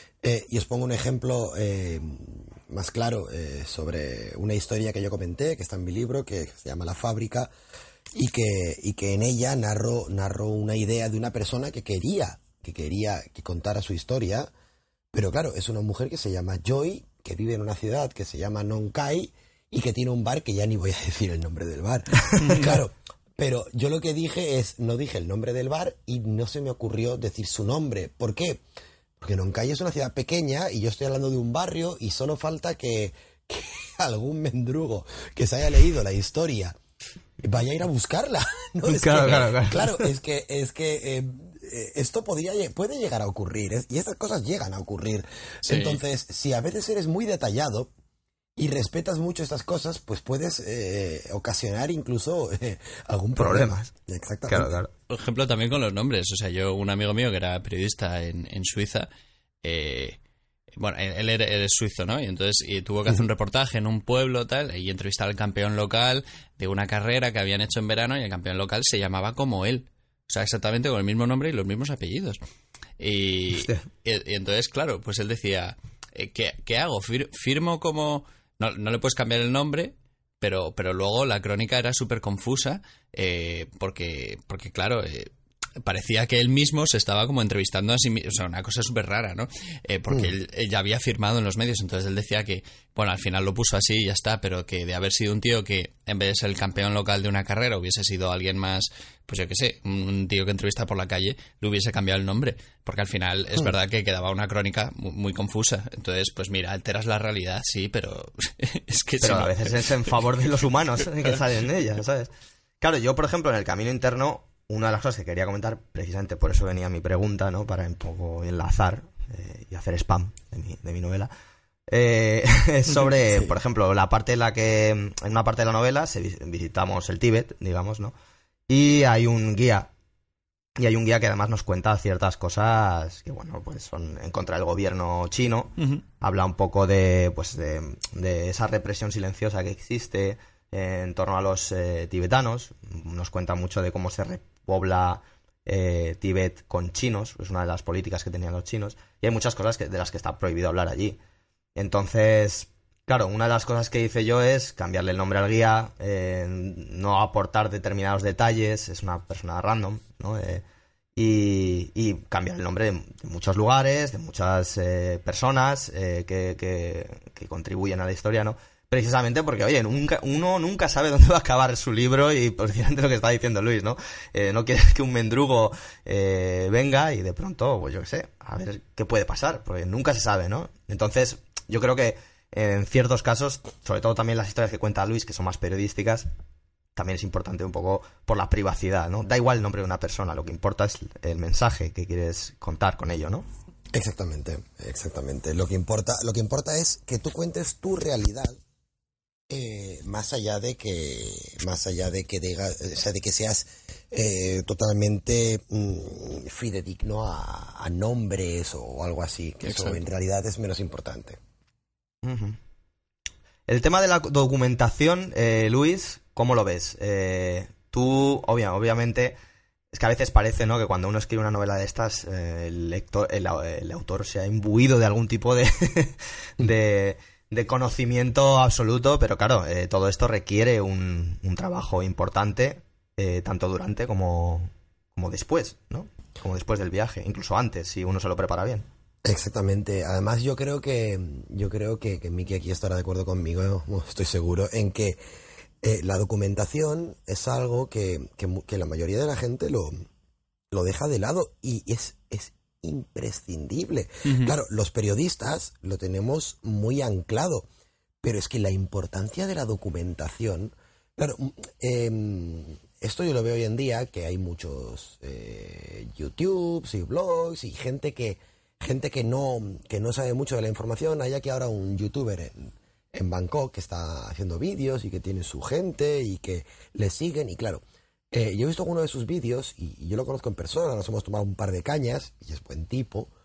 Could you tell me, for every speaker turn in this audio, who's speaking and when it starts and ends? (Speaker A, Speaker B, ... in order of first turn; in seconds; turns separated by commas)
Speaker A: 0.2-7.5, Speaker A: 8.1-14.5, Speaker A: 15.1-28.6, Speaker B: 22.4-22.7, Speaker A: 29.2-36.8, Speaker A: 37.4-47.9, Speaker C: 38.9-40.1, Speaker B: 45.6-46.0, Speaker A: 48.6-54.7, Speaker C: 53.4-53.9, Speaker C: 54.5-54.9, Speaker B: 55.1-59.1, Speaker B: 59.6-60.2, Speaker B: 60.8-72.4, Speaker B: 73.0-110.1, Speaker C: 73.5-73.8, Speaker C: 109.2-121.3, Speaker C: 121.9-128.1, Speaker C: 128.7-129.9, Speaker C: 130.8-151.2, Speaker C: 151.8-160.6, Speaker C: 161.2-186.3, Speaker C: 186.9-193.4, Speaker A: 193.9-198.6, Speaker A: 199.5-211.4, Speaker B: 209.6-210.0, Speaker C: 212.2-212.6, Speaker C: 213.7-219.4, Speaker C: 219.9-238.9, Speaker A: 239.2-245.2, Speaker A: 245.8-250.1, Speaker A: 250.7-257.6, Speaker B: 254.2-254.6, Speaker A: 258.2-283.3